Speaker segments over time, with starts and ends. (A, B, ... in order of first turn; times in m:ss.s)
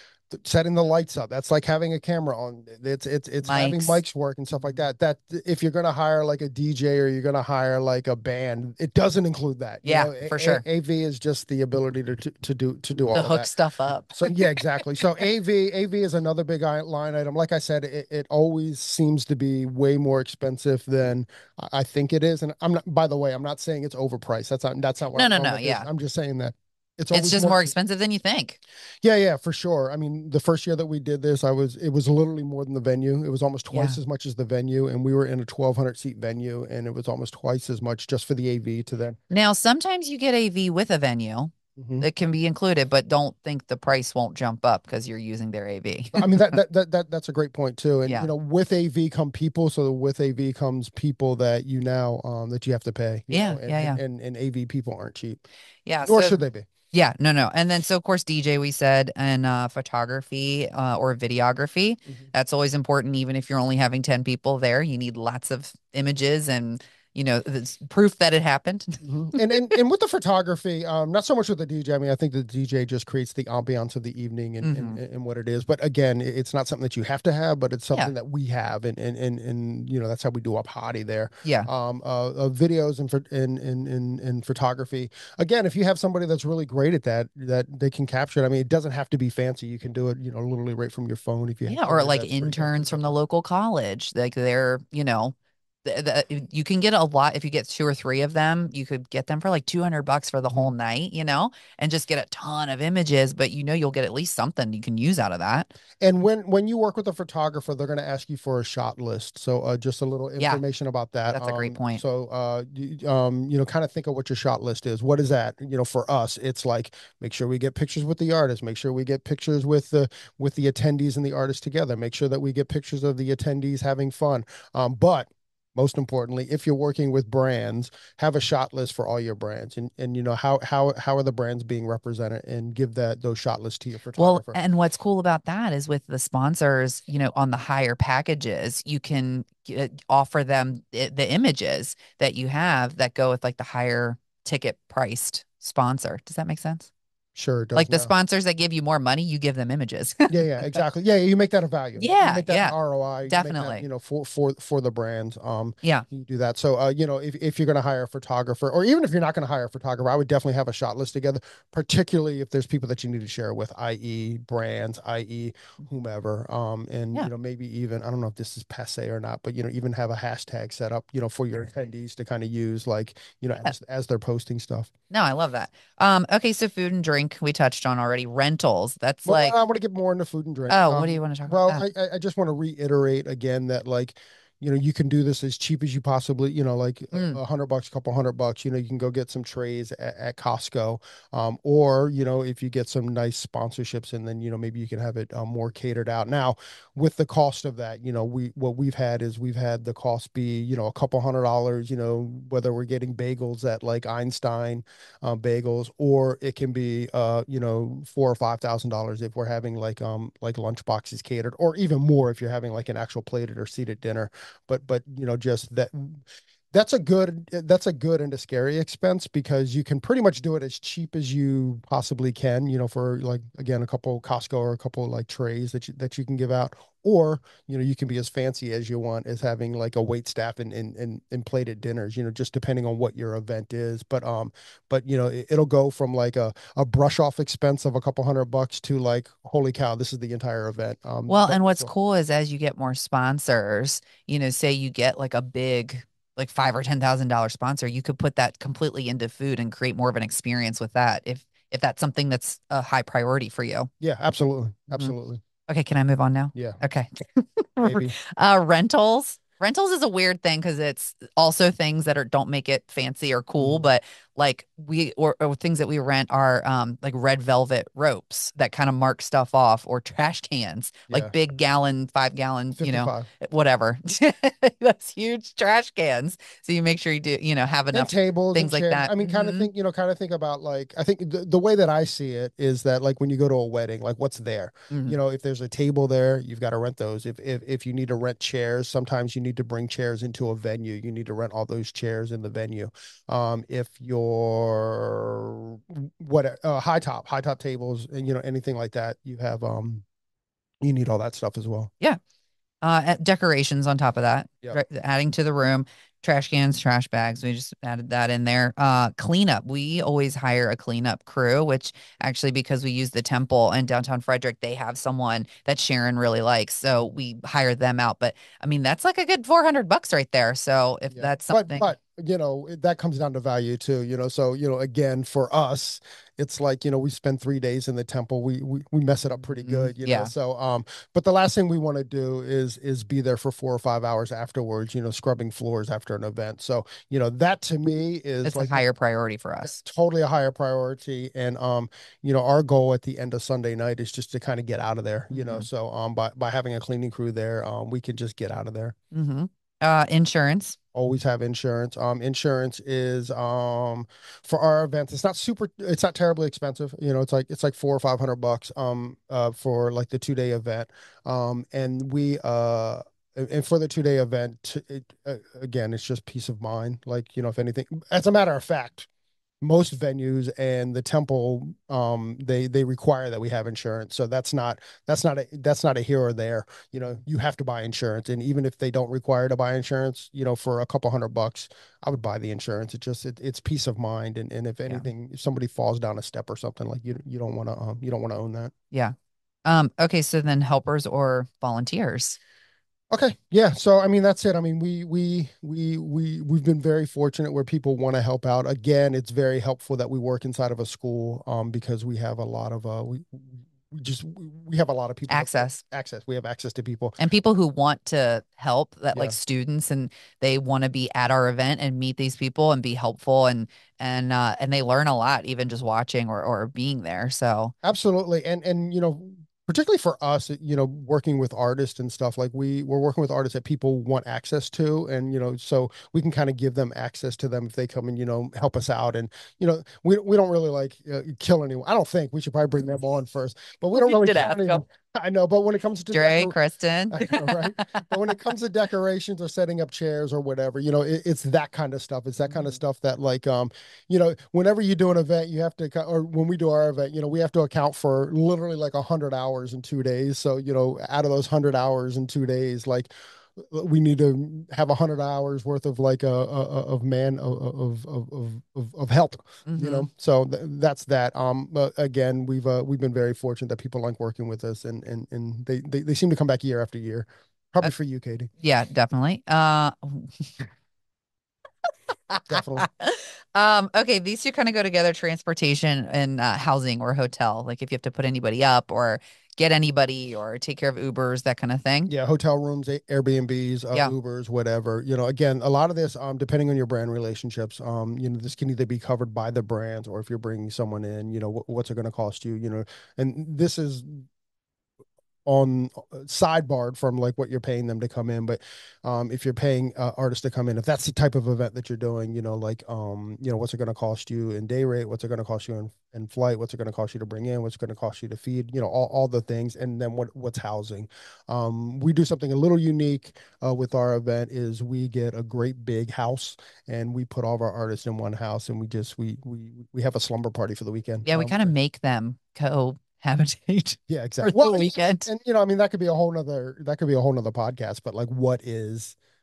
0:00.3-0:13.5 A
0:03.4-0:04.0 B
0:09.8-0:10.6 B
0:13.1-0:14.6 B
0:14.1-0:27.7 A
0:25.2-0:25.9 B
0:27.1-0:28.6 B
0:29.0-0:39.2 A
0:33.7-0:34.0 B
0:39.3-0:46.3 B
0:41.8-0:42.1 A
0:46.2-0:55.4 A
0:53.3-0:54.0 B
0:55.9-0:56.4 B
0:56.0-0:56.7 A
0:56.9-1:09.7 B
1:09.0-1:33.1 A
1:14.6-1:15.0 B
1:31.7-1:45.7 B
1:46.0-2:14.6 A
1:51.3-1:52.0 B
2:14.2-2:26.9 B
2:27.4-2:28.1 A
2:27.8-2:30.3 B
2:30.3-2:54.9 A
2:32.0-2:32.8 B
2:33.3-2:33.8 B
2:55.1-2:59.6 B
2:59.2-4:01.9 A
3:00.7-3:01.8 B
3:07.1-3:07.4 B
4:01.3-4:13.9 B
4:14.0-4:15.4 A
4:15.7-4:39.7 B
4:16.6-4:16.8 A
4:17.8-4:18.2 A
4:23.6-4:23.8 A
4:32.8-4:33.3 A
4:37.9-5:00.0 A
4:44.9-4:45.2 B
5:00.8-5:01.9 A
5:02.8-5:21.9 B
5:21.1-5:38.8 A
5:29.6-5:30.3 B
5:38.4-5:39.8 B
5:39.6-5:49.0 A
5:45.3-5:45.7 B
5:49.1-5:50.8 B
5:50.9-6:09.1 A
6:09.6-6:28.7 A
6:28.9-6:32.4 B
6:33.1-6:47.2 A
6:45.3-6:45.8 B
6:47.2-6:57.7 B
6:57.8-7:16.6 A
7:14.0-7:14.8 B
7:16.1-7:18.1 B
7:17.1-7:48.5 A
7:39.7-7:40.1 B
7:48.6-7:50.6 B
7:52.3-8:02.1 B
7:52.5-7:52.9 A
8:02.1-8:14.3 A
8:15.5-8:41.7 A
8:41.3-8:45.3 B
8:44.1-8:49.2 A